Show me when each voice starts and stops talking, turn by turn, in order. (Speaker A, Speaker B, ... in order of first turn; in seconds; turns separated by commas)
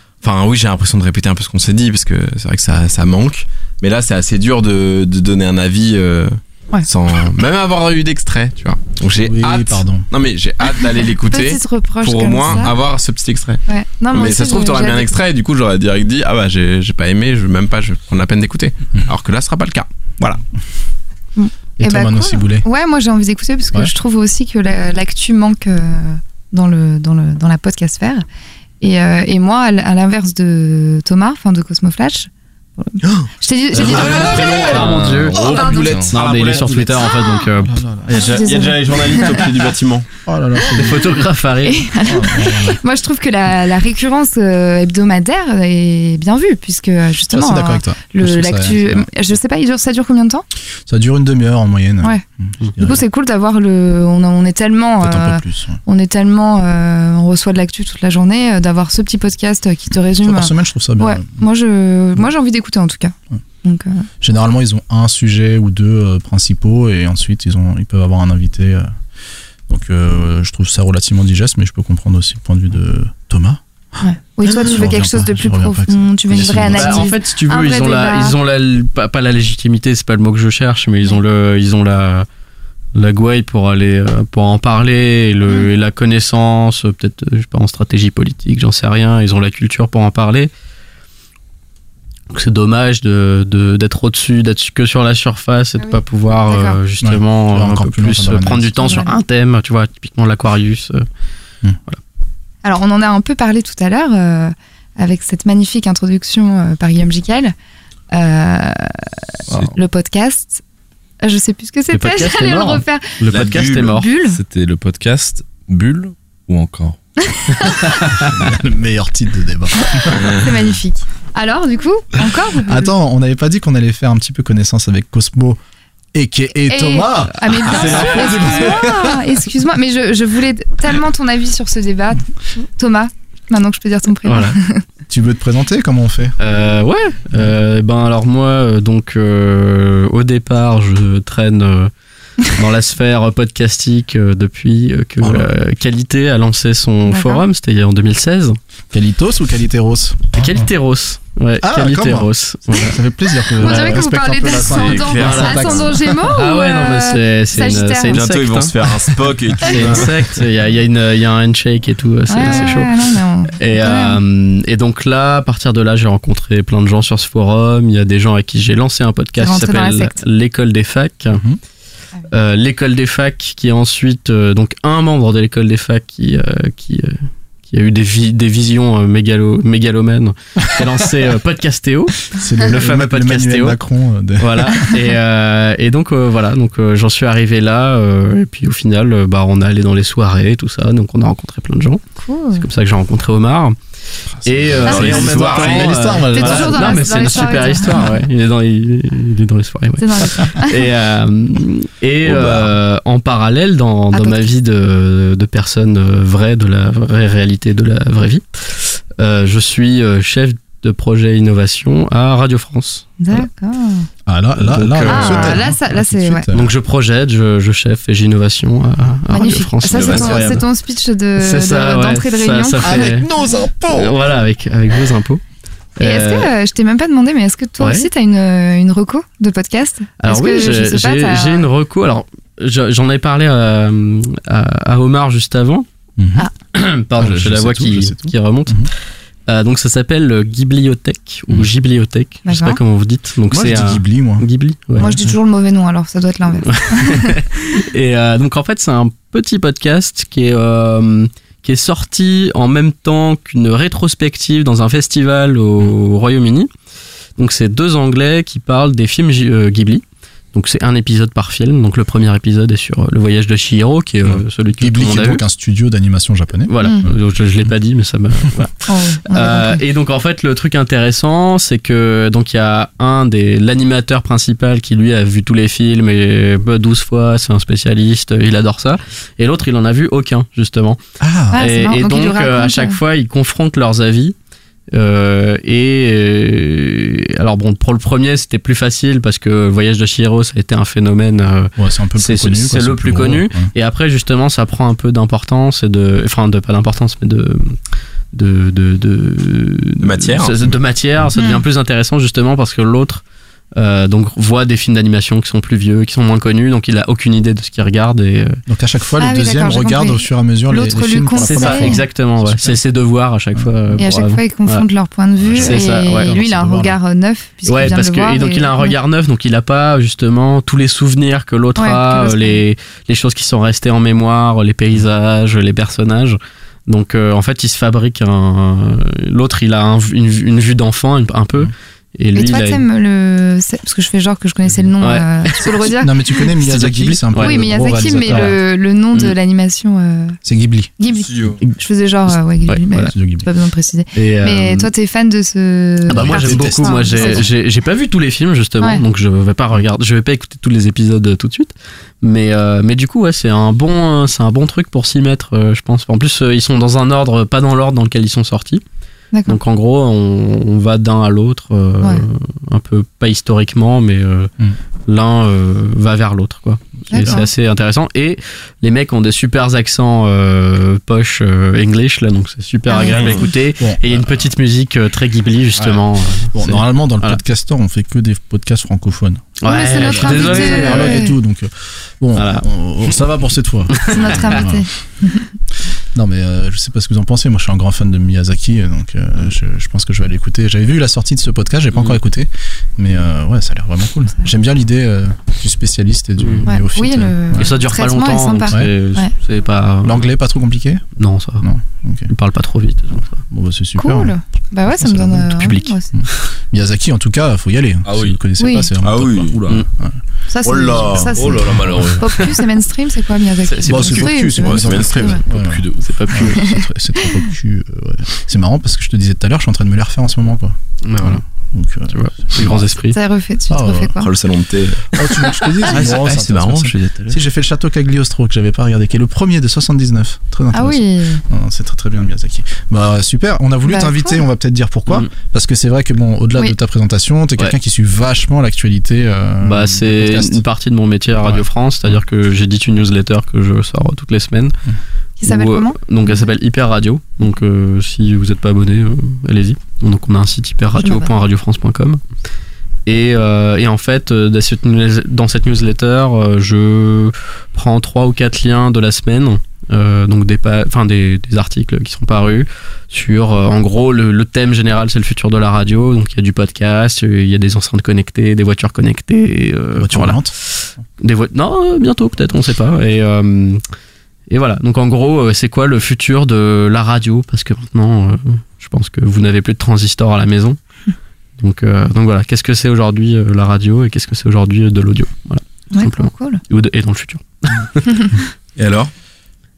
Speaker A: 0.2-13.6, Speaker B: 9.2-10.1, Speaker C: 11.2-12.7, Speaker C: 13.7-15.1, Speaker A: 14.1-20.4, Speaker C: 21.4-28.2, Speaker B: 21.8-22.6, Speaker C: 28.8-34.7, Speaker A: 33.0-37.1, Speaker D: 33.8-37.8, Speaker E: 34.6-36.1, Speaker B: 36.6-36.9, Speaker B: 37.6-38.4, Speaker A: 38.1-40.0, Speaker C: 38.2-39.4, Speaker B: 40.2-41.1, Speaker D: 40.7-41.9, Speaker C: 41.6-50.4, Speaker B: 42.0-42.8, Speaker B: 47.3-49.1, Speaker B: 50.9-53.0, Speaker C: 52.8-64.0, Speaker B: 55.0-55.8, Speaker B: 60.2-61.4, Speaker B: 64.2-68.9, Speaker B: 69.7-73.6, Speaker C: 74.0-78.3, Speaker B: 74.4-77.1, Speaker D: 76.6-82.2, Speaker D: 82.9-90.5, Speaker D: 92.3-101.0, Speaker C: 95.8-96.8, Speaker B: 97.0-99.0, Speaker C: 98.8-99.1, Speaker C: 102.6-107.5, Speaker C: 108.1-110.6, Speaker C: 111.2-113.2, Speaker D: 111.9-114.1, Speaker A: 113.3-113.9, Speaker C: 113.8-114.4, Speaker E: 114.2-117.0, Speaker C: 117.4-117.8, Speaker B: 118.3-120.3, Speaker C: 120.1-122.9, Speaker B: 122.6-125.6, Speaker B: 126.1-129.2, Speaker C: 126.7-132.2, Speaker C: 132.8-134.8, Speaker D: 134.2-134.6, Speaker B: 135.1-136.4, Speaker D: 136.4-141.9, Speaker D: 142.4-148.6, Speaker B: 145.2-145.5, Speaker C: 147.1-147.4, Speaker B: 148.9-150.7, Speaker D: 150.3-153.0, Speaker B: 151.6-156.2, Speaker D: 153.6-154.0, Speaker C: 153.6-158.2, Speaker A: 154.7-155.9, Speaker D: 155.1-155.6, Speaker D: 156.2-159.1, Speaker A: 158.1-160.3, Speaker D: 159.6-162.9, Speaker C: 162.3-164.2, Speaker D: 163.6-171.4, Speaker C: 169.4-170.2, Speaker B: 171.3-171.6, Speaker D: 172.3-183.8, Speaker B: 182.3-185.0, Speaker D: 184.4-192.0, Speaker C: 192.2-192.7, Speaker D: 192.5-193.8, Speaker D: 194.4-213.4, Speaker B: 194.5-197.1, Speaker A: 194.7-196.2, Speaker C: 196.3-198.1, Speaker C: 200.0-200.8, Speaker A: 202.2-202.7, Speaker C: 204.1-204.5, Speaker C: 213.2-214.1, Speaker B: 214.2-216.7, Speaker D: 214.7-215.7, Speaker C: 215.1-216.4, Speaker D: 216.5-220.7, Speaker C: 219.3-223.1, Speaker D: 221.3-223.3, Speaker B: 222.8-224.1, Speaker D: 223.9-225.4, Speaker D: 226.0-226.5, Speaker C: 226.0-231.7, Speaker D: 227.8-228.1, Speaker D: 230.2-235.8, Speaker B: 236.2-236.4, Speaker D: 236.6-238.9, Speaker B: 237.2-238.9, Speaker D: 239.4-245.2, Speaker C: 242.4-242.8, Speaker B: 243.5-245.3, Speaker C: 245.0-247.3, Speaker D: 246.6-256.7, Speaker D: 257.4-265.4, Speaker B: 264.2-267.1, Speaker D: 266.7-281.0, Speaker C: 268.9-269.8, Speaker B: 281.2-281.6, Speaker C: 281.5-283.0, Speaker D: 281.5-284.3, Speaker D: 284.9-297.8, Speaker B: 291.8-293.7, Speaker D: 298.3-303.2, Speaker A: 300.0-300.8, Speaker C: 301.3-301.6, Speaker D: 303.8-308.6, Speaker B: 308.7-312.8, Speaker C: 309.2-312.0, Speaker D: 311.4-314.8, Speaker B: 313.5-314.0, Speaker C: 314.0-318.9, Speaker B: 315.4-317.0, Speaker D: 315.6-316.4, Speaker D: 317.6-332.8, Speaker C: 321.8-322.6, Speaker C: 332.3-336.1, Speaker D: 335.0-335.9, Speaker B: 335.9-338.6, Speaker D: 336.4-338.6, Speaker C: 337.3-340.4, Speaker B: 340.4-340.9, Speaker C: 341.0-347.4, Speaker A: 341.3-341.6, Speaker D: 342.7-343.1, Speaker B: 343.0-343.5, Speaker D: 344.1-344.9, Speaker D: 346.1-358.8, Speaker B: 346.1-347.5, Speaker C: 359.3-359.6, Speaker D: 359.4-364.5, Speaker D: 365.1-377.4, Speaker C: 367.1-367.5, Speaker B: 367.1-367.4, Speaker C: 372.9-373.3, Speaker B: 373.8-374.5, Speaker B: 376.5-379.5, Speaker D: 379.6-381.3, Speaker C: 379.6-381.4, Speaker B: 380.1-384.8, Speaker D: 382.3-382.7, Speaker D: 383.9-384.5, Speaker C: 384.0-385.5, Speaker B: 386.1-397.7, Speaker D: 396.4-396.6, Speaker C: 396.6-399.3, Speaker D: 397.6-400.2, Speaker B: 400.0-401.1, Speaker D: 401.2-401.6, Speaker B: 401.6-402.3, Speaker D: 402.3-403.4, Speaker B: 403.5-404.3, Speaker C: 403.9-406.1, Speaker B: 405.0-410.1, Speaker D: 405.6-405.9, Speaker E: 408.1-408.4, Speaker C: 408.6-408.9, Speaker A: 409.0-409.6, Speaker E: 409.4-409.8, Speaker C: 410.5-415.4, Speaker A: 410.6-411.6, Speaker E: 411.3-412.3, Speaker D: 413.6-414.5, Speaker B: 413.9-422.9, Speaker A: 414.6-415.4, Speaker E: 415.5-416.3, Speaker D: 416.0-416.7, Speaker D: 421.0-421.4, Speaker D: 422.1-423.2, Speaker C: 423.1-424.3, Speaker B: 423.7-424.1, Speaker A: 424.2-427.4, Speaker B: 425.1-440.6, Speaker C: 430.7-431.4, Speaker C: 433.9-434.4, Speaker D: 439.6-444.8, Speaker B: 441.4-442.2, Speaker C: 445.4-446.0, Speaker D: 445.4-452.2, Speaker C: 451.0-451.3, Speaker D: 453.1-473.8, Speaker B: 470.0-470.5, Speaker D: 474.5-480.8, Speaker D: 481.6-488.2, Speaker C: 485.9-486.6, Speaker A: 488.8-489.1